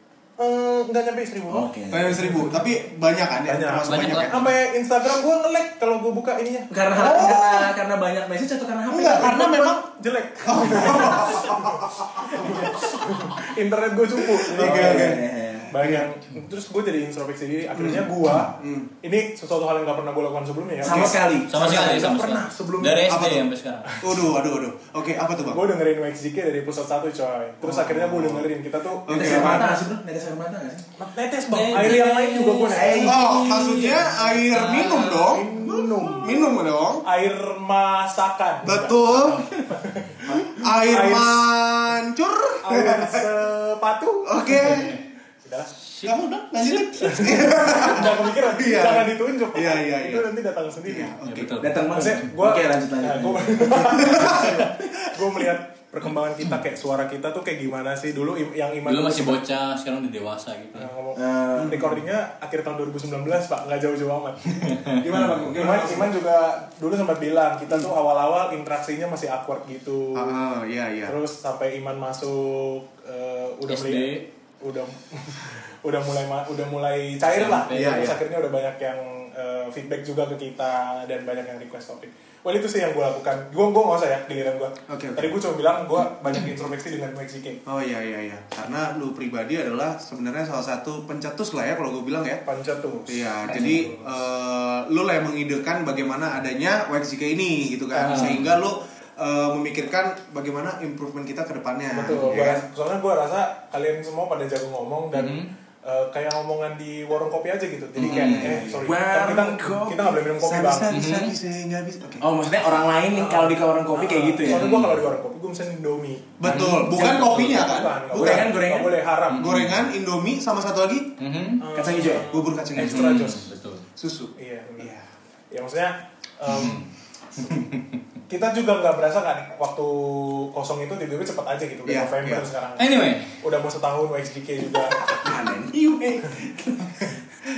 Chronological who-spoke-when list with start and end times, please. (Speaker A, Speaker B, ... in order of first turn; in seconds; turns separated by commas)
Speaker A: 0.4-1.7, Speaker B: 1.5-2.6, Speaker C: 1.9-4.5, Speaker A: 3.5-6.7, Speaker D: 3.8-4.5, Speaker B: 6.7-9.7, Speaker C: 6.9-7.7, Speaker C: 8.9-9.8, Speaker A: 9.2-23.3, Speaker C: 10.4-12.8, Speaker C: 14.2-15.3, Speaker B: 14.5-16.1, Speaker C: 17.7-18.9, Speaker B: 20.8-22.1, Speaker C: 20.9-21.2, Speaker D: 21.5-23.9, Speaker C: 23.1-23.5, Speaker C: 24.0-25.7, Speaker A: 25.5-29.8, Speaker C: 27.6-28.5, Speaker C: 29.1-29.8, Speaker B: 29.1-30.9, Speaker A: 31.0-33.1, Speaker D: 31.5-35.3, Speaker B: 32.7-34.0, Speaker C: 33.0-35.6, Speaker B: 34.5-35.0, Speaker A: 35.2-36.5, Speaker B: 35.6-36.3, Speaker C: 36.1-37.0, Speaker A: 37.0-41.5, Speaker C: 38.6-39.5, Speaker B: 39.3-39.7, Speaker C: 40.3-43.3, Speaker A: 42.6-45.7, Speaker C: 44.2-45.0, Speaker D: 44.6-45.0, Speaker D: 45.8-46.1, Speaker C: 46.0-50.3, Speaker A: 47.0-51.1, Speaker C: 50.9-51.7, Speaker D: 51.3-52.2, Speaker B: 51.6-54.7, Speaker A: 51.9-59.4, Speaker C: 53.9-54.9, Speaker D: 58.9-60.9, Speaker A: 60.8-64.8, Speaker B: 61.2-61.9, Speaker C: 61.6-61.8, Speaker C: 65.0-66.1, Speaker A: 65.5-70.4, Speaker C: 70.2-71.1, Speaker A: 71.1-87.6, Speaker D: 73.7-74.2, Speaker D: 77.3-78.0, Speaker C: 77.7-78.2, Speaker C: 84.9-85.4, Speaker C: 87.7-92.4, Speaker A: 92.5-94.1, Speaker C: 93.1-102.6, Speaker A: 97.9-98.5, Speaker A: 101.9-111.0, Speaker D: 105.1-105.5, Speaker C: 108.0-108.8, Speaker B: 108.0-110.1, Speaker C: 110.4-112.3, Speaker D: 110.9-111.3, Speaker B: 111.0-111.3, Speaker B: 112.2-114.8, Speaker A: 113.1-119.6, Speaker D: 114.5-115.0, Speaker C: 116.4-118.7, Speaker D: 116.5-116.9, Speaker B: 116.5-119.0, Speaker D: 119.3-119.9, Speaker C: 119.4-121.2, Speaker D: 121.2-121.7, Speaker A: 121.6-123.5, Speaker B: 121.7-122.4, Speaker C: 122.0-123.3, Speaker D: 122.8-123.9, Speaker C: 124.0-125.1, Speaker A: 124.4-124.9, Speaker A: 125.5-126.8, Speaker D: 126.5-126.9, Speaker D: 127.4-127.8, Speaker A: 128.3-135.0, Speaker C: 131.9-132.5, Speaker D: 132.8-133.3, Speaker B: 135.1-137.2